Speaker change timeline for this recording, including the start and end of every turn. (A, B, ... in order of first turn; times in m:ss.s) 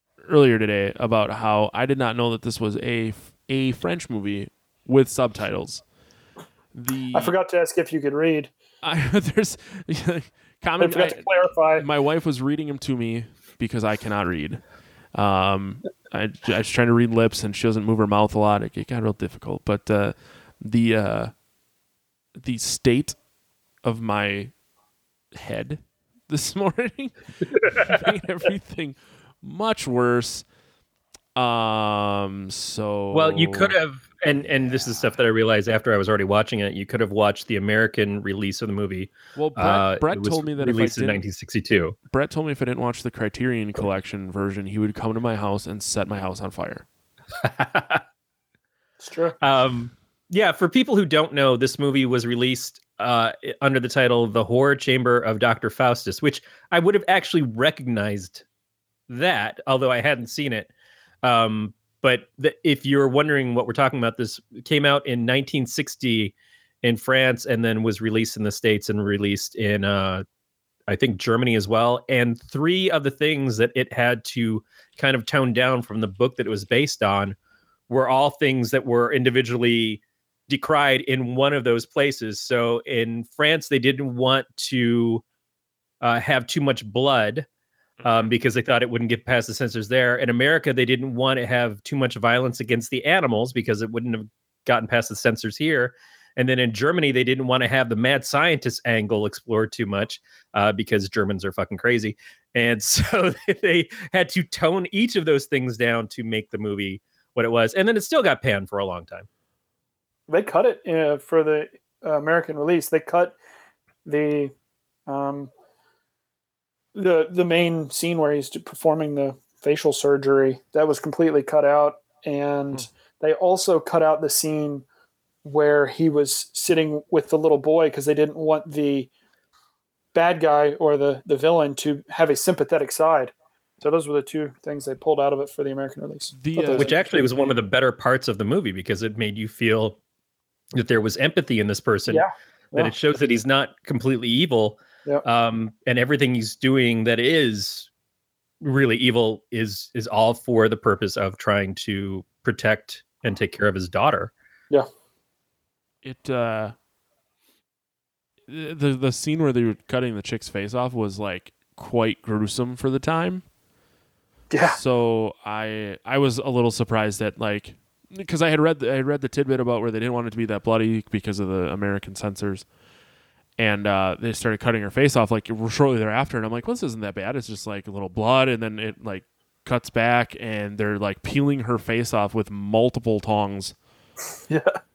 0:00.2-0:05.8 A
0:06.7-0:07.3 A
0:07.1-0:08.5 B
0:08.8-0:21.4 A
0:10.8-0:11.8 B
0:22.4-0:23.2 A
0:23.8-0:24.6 A
0:25.3-0:27.2 A
0:27.5-0:28.0 C
0:27.8-0:30.5 A
0:31.4-0:33.8 A
0:33.1-0:41.9 C
0:39.4-0:41.2 A
0:42.1-0:46.8 A
0:47.4-0:48.0 C
0:49.0-0:49.4 B
0:49.4-0:58.4 C
0:59.1-1:00.7 C
1:01.2-1:10.2 C
1:10.9-1:17.4 C
1:17.9-1:25.2 C
1:26.0-1:27.5 C
1:28.0-1:28.3 A
1:28.0-1:49.3 C
1:50.3-1:53.4 B
1:54.0-1:54.5 B
1:55.1-1:55.5 B
1:56.9-2:04.8 B
2:05.4-2:09.1 B
2:10.1-2:17.0 B
2:16.3-2:17.1 A
2:16.7-2:20.0 C
2:20.7-2:27.9 C
2:22.1-2:22.9 B
2:28.6-2:34.3 C
2:36.0-2:36.7 A
2:38.5-2:43.4 A
2:44.5-2:44.8 B
2:44.7-2:52.7 A
2:53.6-3:03.7 A
3:04.5-3:04.8 B